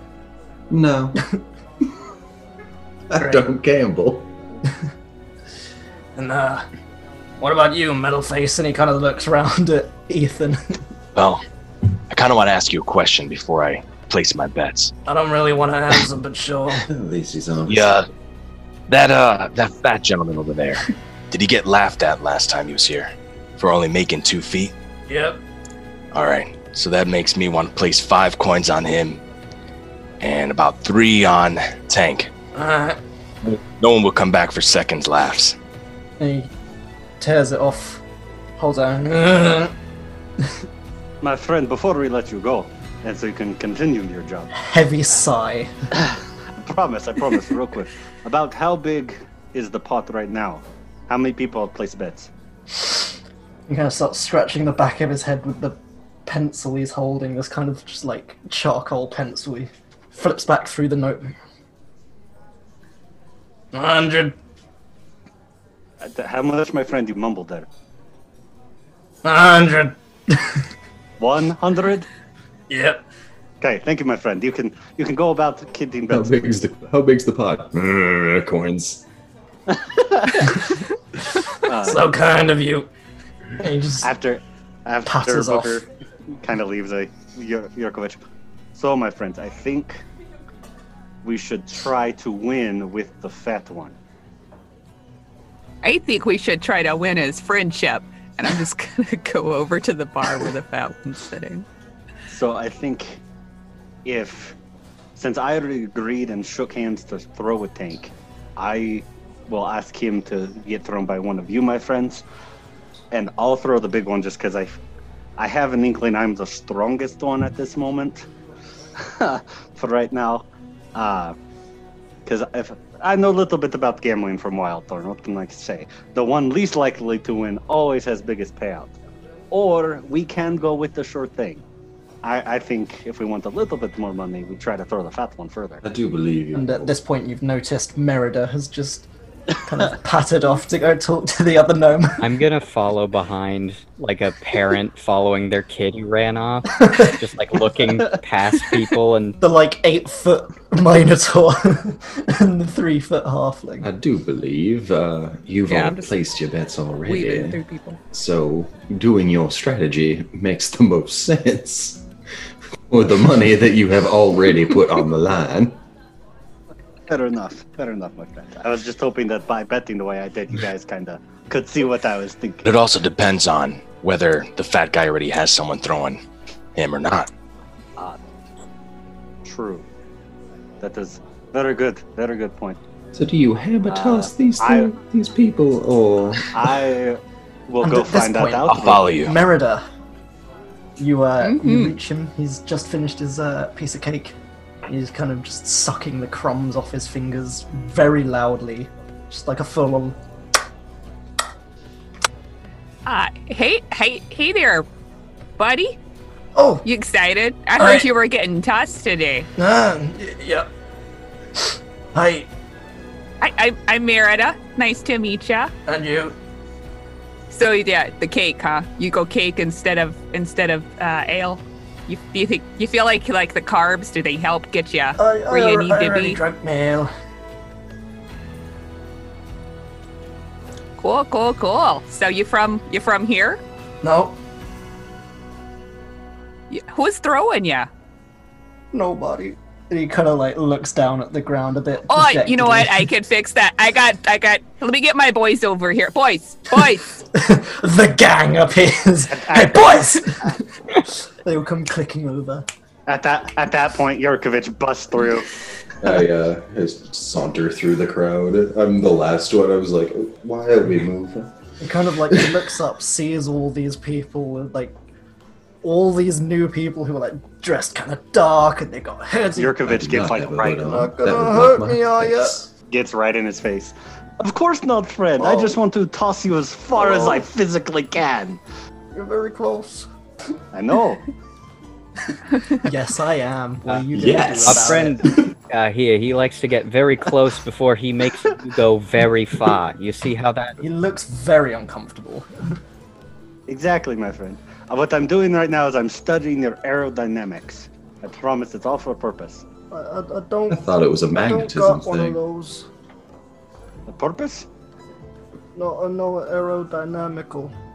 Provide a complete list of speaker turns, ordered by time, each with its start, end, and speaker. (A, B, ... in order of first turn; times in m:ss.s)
0:00.7-0:01.2 A
0:03.1-0:04.3 A
0:03.2-0:03.4 B
0:06.2-0:06.6 B
0:07.4-0:10.8 B
0:11.2-0:11.4 C
0:12.1-0:14.9 C
0:15.0-0:16.8 B
0:16.8-0:18.0 A
0:17.7-0:18.1 C
0:18.9-0:24.7 C
0:25.1-0:25.4 B
0:26.1-0:29.2 C
0:30.2-0:32.3 C
0:32.5-0:33.0 B
0:33.4-0:35.6 C
0:36.2-0:36.5 B
0:37.2-0:38.0 B
0:38.6-0:39.7 B
0:41.2-0:44.5 D
0:44.5-0:45.7 B
0:46.0-0:52.3 D
0:52.8-0:53.0 B
0:53.7-1:01.4 B
1:03.7-1:04.3 B
1:06.0-1:07.7 D
1:09.2-1:10.5 B
1:11.2-1:12.1 D
1:12.7-1:13.0 B
1:13.6-1:16.6 D
1:16.1-1:19.0 A
1:19.7-1:20.6 D
1:21.6-1:22.0 D
1:21.8-1:22.9 B
1:23.6-1:24.1 B
1:24.0-1:28.2 D
1:25.0-1:25.8 B
1:28.7-1:30.0 D
1:31.2-1:33.9 D
1:35.8-1:41.6 E
1:42.3-1:43.2 D
1:44.0-1:44.6 D
1:45.2-1:52.2 D
1:53.1-1:54.7 D
1:55.4-1:58.3 D
1:59.0-2:01.4 D
2:02.2-2:08.9 D
2:09.5-2:11.6 D
2:12.2-2:15.8 D
2:15.8-2:17.0 A
2:16.5-2:19.1 B
2:19.6-2:22.3 B
2:22.2-2:29.4 F
2:26.8-2:27.1 B
2:29.4-2:33.9 B
2:33.8-2:37.6 A
2:35.7-2:36.1 E
2:37.0-2:38.0 E
2:38.1-2:42.0 A
2:42.9-2:45.8 A
2:47.1-2:52.6 D
2:52.6-2:56.2 C
2:56.7-2:57.3 C
2:59.4-2:59.8 D
3:00.8-3:02.8 D
3:03.1-3:06.7 A
3:03.9-3:04.9 D
3:06.5-3:09.0 D
3:07.8-3:09.8 B
3:08.7-3:09.4 C
3:11.0-3:14.3 B
3:11.4-3:11.9 E
3:14.9-3:20.2 B
3:23.0-3:24.8 E
3:25.6-3:26.0 E
3:26.5-3:26.8 B
3:26.8-3:29.5 E
3:27.8-3:28.1 B
3:29.6-3:30.7 B
3:32.1-3:32.5 B
3:33.4-3:35.7 E
3:35.8-3:36.3 B
3:37.5-3:46.4 E
3:45.2-3:47.1 B
3:51.0-3:53.6 E
3:54.0-3:54.4 B
3:56.7-3:57.9 E
3:58.9-4:03.1 B
4:02.1-4:07.2 E
4:07.3-4:12.6 B
4:09.3-4:10.6 D
4:13.1-4:15.6 D
4:16.0-4:21.5 A
4:21.8-4:25.0 B
4:22.3-4:22.6 A
4:25.8-4:29.7 B
4:29.6-4:31.0 D
4:29.8-4:32.7 A
4:30.8-4:32.6 B
4:32.9-4:38.6 D
4:35.4-4:35.7 B
4:36.9-4:37.4 B
4:39.1-4:40.1 B
4:40.7-4:41.2 D
4:42.6-4:42.9 E
4:42.8-4:45.2 B
4:44.1-4:45.5 A
4:44.6-4:50.8 F
4:50.8-4:52.7 B
4:53.7-4:59.6 D
4:59.9-5:02.9 B
5:00.7-5:02.4 A
5:04.1-5:04.7 D
5:05.8-5:07.7 B